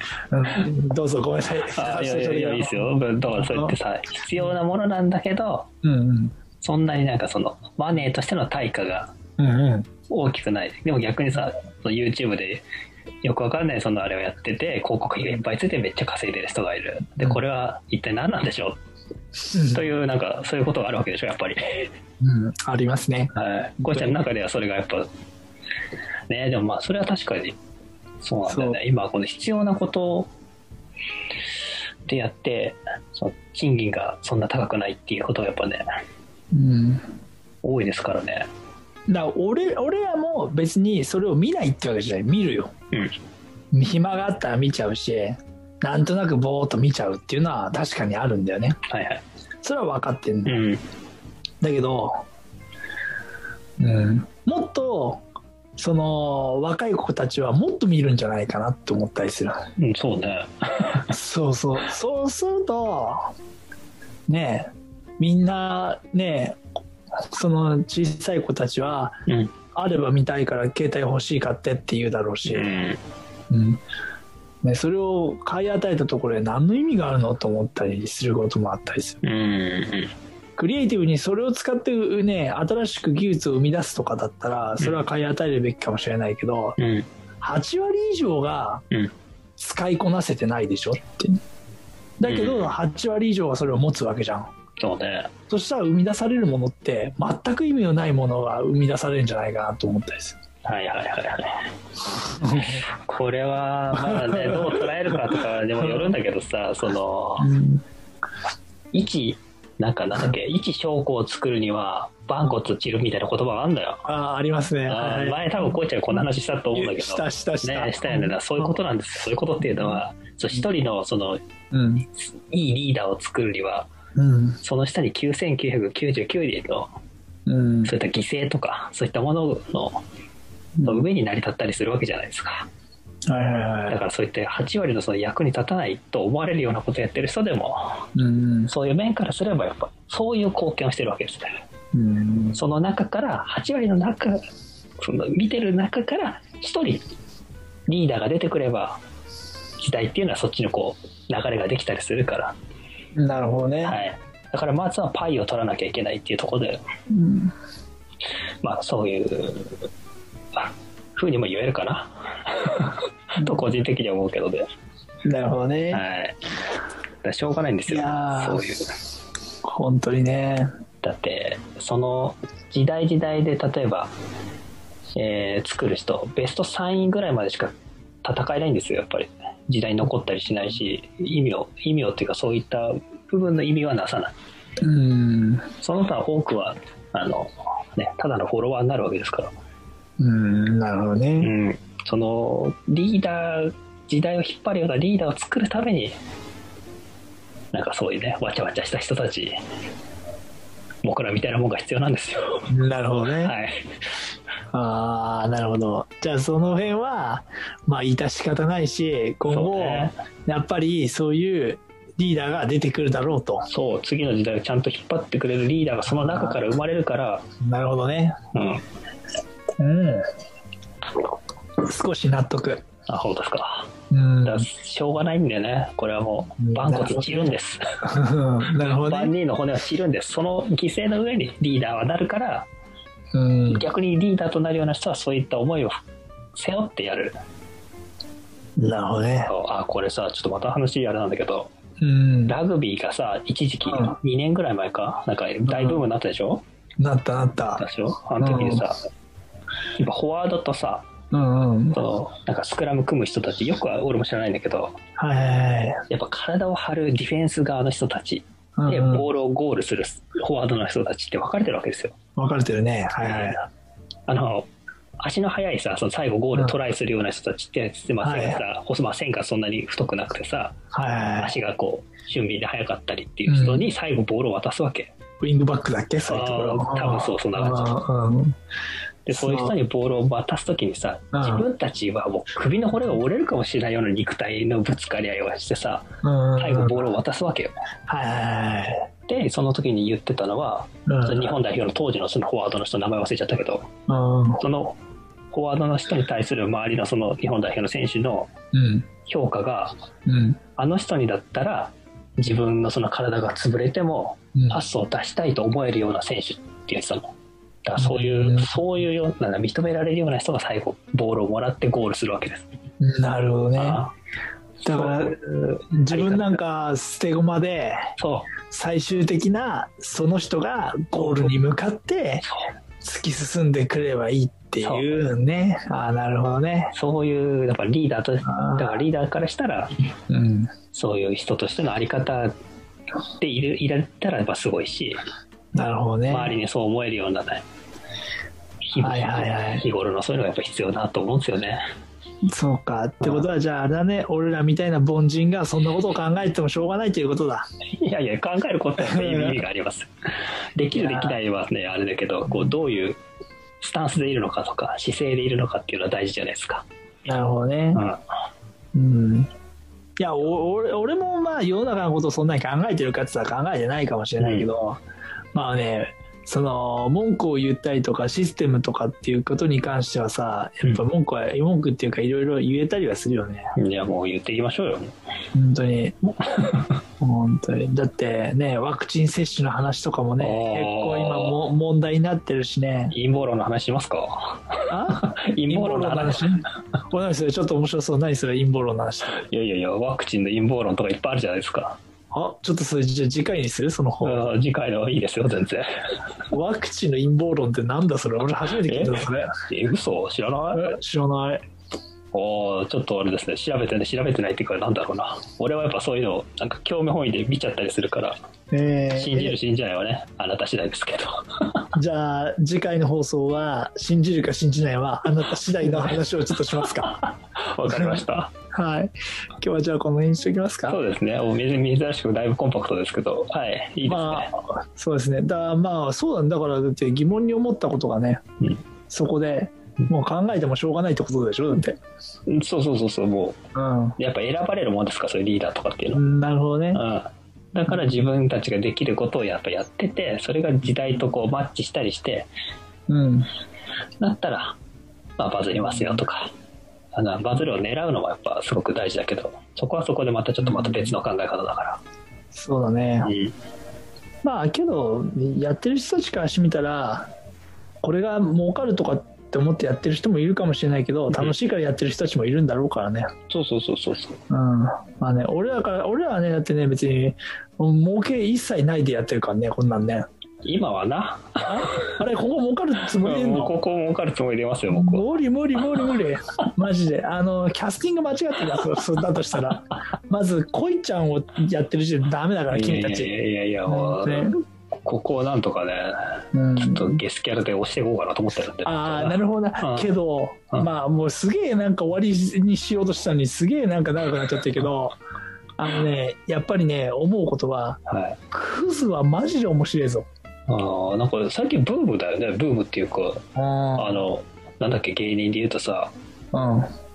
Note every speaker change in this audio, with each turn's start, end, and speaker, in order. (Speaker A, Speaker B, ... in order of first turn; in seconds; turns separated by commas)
Speaker A: 0.3-3.8, Speaker B: 1.7-5.7, Speaker A: 5.8-6.3, Speaker B: 6.6-9.1, Speaker A: 9.4-9.9, Speaker B: 10.1-12.6, Speaker B: 13.2-18.8, Speaker A: 19.5-19.8, Speaker B: 19.5-21.9, Speaker A: 22.2-24.2, Speaker B: 23.3-25.1, Speaker B: 26.3-27.6, Speaker B: 28.2-30.3, Speaker A: 28.4-28.8, Speaker B: 32.1-35.8, Speaker A: 36.5-37.0, Speaker B: 37.6-38.5, Speaker A: 39.1-42.7, Speaker A: 43.7-48.8, Speaker B: 48.9-49.2, Speaker A: 49.6-50.6, Speaker B: 50.5-50.8, Speaker A: 51.6-52.2, Speaker A: 53.8-55.2, Speaker A: 55.8-59.6, Speaker B: 59.8-61.1, Speaker A: 61.1-63.3, Speaker A: 64.3-66.6, Speaker A: 67.3-69.2, Speaker B: 69.3-69.5, Speaker A: 69.7-72.8, Speaker B: 72.5-73.0, Speaker A: 73.5-73.8, Speaker A: 74.6-79.2, Speaker B: 79.2-80.1, Speaker A: 80.6-86.8, Speaker B: 86.8-87.1, Speaker A: 87.4-88.8, Speaker A: 89.6-91.4, Speaker A: 92.2-94.5, Speaker B: 92.2-92.7, Speaker B: 94.8-95.3, Speaker A: 95.5-100.4, Speaker B: 100.6-101.5, Speaker A: 102.4-102.8, Speaker B: 102.6-107.5, Speaker A: 104.0-104.9, Speaker A: 105.8-106.1, Speaker A: 107.4-107.8, Speaker B: 108.9-114.0, Speaker A: 114.0-115.8, Speaker B: 114.9-121.4, Speaker A: 116.7-118.7, Speaker A: 119.6-120.0, Speaker A: 121.7-122.0, Speaker B: 122.1-123.9, Speaker A: 124.2-124.6, Speaker B: 124.6-126.9, Speaker A: 127.5-127.9, Speaker B: 127.8-130.0, Speaker A: 130.8-131.1, Speaker B: 130.8-132.7, Speaker A: 133.3-134.0, Speaker B: 133.9-138.1, Speaker A: 138.2-138.7, Speaker B: 138.7-141.5, Speaker A: 141.9-142.6, Speaker B: 142.5-144.4, Speaker B: 145.0-147.0, Speaker B: 147.9-149.0, Speaker B: 149.8-152.5, Speaker A: 153.1-154.0, Speaker B: 153.8-156.8, Speaker A: 157.1-157.5, Speaker B: 158.6-159.8, Speaker B: 160.6-164.7, Speaker A: 163.4-163.6, Speaker A: 165.2-166.0, Speaker B: 165.9-166.4, Speaker B: 167.2-168.8, Speaker A: 167.9-168.6, Speaker A: 169.6-170.7, Speaker B: 171.0-174.1, Speaker B: 175.2-184.3, Speaker A: 184.8-185.6, Speaker B: 185.8-189.5, Speaker A: 190.2-191.5, Speaker B: 191.4-196.1, Speaker B: 197.7-199.6, Speaker B: 201.0-202.7, Speaker A: 202.7-203.5, Speaker B: 203.3-204.1, Speaker A: 204.7-213.7, Speaker B: 209.5-210.1, Speaker B: 213.7-217.4, Speaker A: 216.1-216.6, Speaker A: 217.6-218.4, Speaker B: 218.5-218.8, Speaker A: 219.8-220.2, Speaker A: 221.8-222.8, Speaker B: 223.1-223.9, Speaker A: 224.1-224.7, Speaker B: 224.4-227.8, Speaker A: 226.6-229.3, Speaker B: 228.9-232.7, Speaker A: 233.3-233.8, Speaker B: 233.7-236.0, Speaker B: 236.5-237.3, Speaker A: 238.8-239.5, Speaker B: 239.4-241.7, Speaker A: 242.0-242.6, Speaker B: 242.5-246.6, Speaker A: 243.8-244.1, Speaker A: 245.7-246.0, Speaker A: 247.0-247.8, Speaker B: 247.8-249.0, Speaker A: 248.4-248.8, Speaker B: 250.0-251.1, Speaker A: 251.3-252.0, Speaker B: 251.9-255.0, Speaker A: 255.2-256.0, Speaker B: 256.1-262.1, Speaker A: 258.8-259.3, Speaker A: 262.4-263.6, Speaker B: 263.2-263.7, Speaker B: 264.3-264.7, Speaker B: 265.2-270.8, Speaker A: 268.2-268.6, Speaker A: 270.9-271.5, Speaker B: 271.3-275.1, Speaker A: 273.5-273.9, Speaker A: 275.4-278.6, Speaker B: 276.2-278.0, Speaker B: 279.2-287.7, Speaker A: 279.3-279.8, Speaker A: 281.3-281.7, Speaker A: 286.2-287.1, Speaker A: 288.1-289.1, Speaker B: 289.3-293.9, Speaker A: 291.1-291.6, Speaker A: 294.1-294.6, Speaker B: 294.6-295.0, Speaker B: 295.5-298.5, Speaker A: 298.7-299.1, Speaker B: 299.2-299.9, Speaker A: 300.3-300.6, Speaker B: 300.8-307.3, Speaker A: 304.5-304.8, Speaker B: 307.8-312.7, Speaker A: 307.9-308.7, Speaker A: 313.0-314.0, Speaker B: 313.8-314.1, Speaker B: 314.8-315.4, Speaker A: 314.8-318.1, Speaker B: 316.1-316.6, Speaker B: 318.2-318.5, Speaker A: 318.7-322.4, Speaker B: 321.2-321.5, Speaker B: 322.4-322.7, Speaker A: 323.0-326.9, Speaker B: 324.8-325.2, Speaker B: 326.9-329.9, Speaker A: 328.4-329.0, Speaker A: 330.3-330.7, Speaker B: 330.9-332.5, Speaker B: 333.4-335.2, Speaker A: 335.7-336.5, Speaker B: 336.3-337.6, Speaker B: 338.9-341.8, Speaker A: 339.0-339.8, Speaker A: 342.5-347.6, Speaker B: 343.2-343.5, Speaker B: 348.0-350.1, Speaker A: 349.0-349.6, Speaker B: 350.7-353.2, Speaker A: 350.9-351.4, Speaker B: 353.8-356.8, Speaker A: 357.2-358.0, Speaker B: 357.9-358.2, Speaker A: 358.9-359.5, Speaker A: 360.2-365.0, Speaker B: 364.4-364.7, Speaker A: 365.5-373.7, Speaker B: 373.8-375.1, Speaker A: 375.5-376.4, Speaker B: 376.6-376.9, Speaker A: 377.2-383.1, Speaker B: 380.4-381.6, Speaker B: 383.1-386.5, Speaker A: 384.9-389.4, Speaker B: 389.3-392.0, Speaker A: 392.3-394.5, Speaker B: 394.2-395.9, Speaker A: 396.5-399.5, Speaker B: 398.8-401.0, Speaker A: 400.7-401.6, Speaker B: 402.3-408.4, Speaker A: 408.7-409.6, Speaker B: 409.1-411.9, Speaker A: 411.9-417.1, Speaker B: 416.8-418.5, Speaker A: 417.9-421.0, Speaker B: 420.9-424.5, Speaker A: 424.0-428.4, Speaker A: 429.1-432.0, Speaker B: 432.5-433.6, Speaker A: 433.7-434.1, Speaker B: 434.2-436.2, Speaker A: 436.1-437.0, Speaker B: 436.9-442.5, Speaker A: 437.9-438.3, Speaker A: 443.1-443.5, Speaker B: 444.2-444.8, Speaker B: 445.4-446.5, Speaker A: 445.7-446.2, Speaker B: 447.1-452.0, Speaker A: 450.6-451.1, Speaker A: 452.5-453.3, Speaker B: 453.2-453.5, Speaker A: 454.4-457.3, Speaker A: 458.0-463.3, Speaker B: 463.5-464.4, Speaker A: 464.5-470.2, Speaker B: 470.6-472.1, Speaker A: 471.6-473.7, Speaker B: 473.2-475.2, Speaker A: 474.9-483.3, Speaker B: 482.7-490.1, Speaker A: 483.9-484.5, Speaker A: 486.5-487.2, Speaker A: 488.8-495.2, Speaker A: 495.8-498.0, Speaker B: 498.1-498.4, Speaker A: 498.5-500.3, Speaker B: 500.7-503.4, Speaker A: 503.5-504.2, Speaker B: 503.9-506.1, Speaker A: 506.5-506.9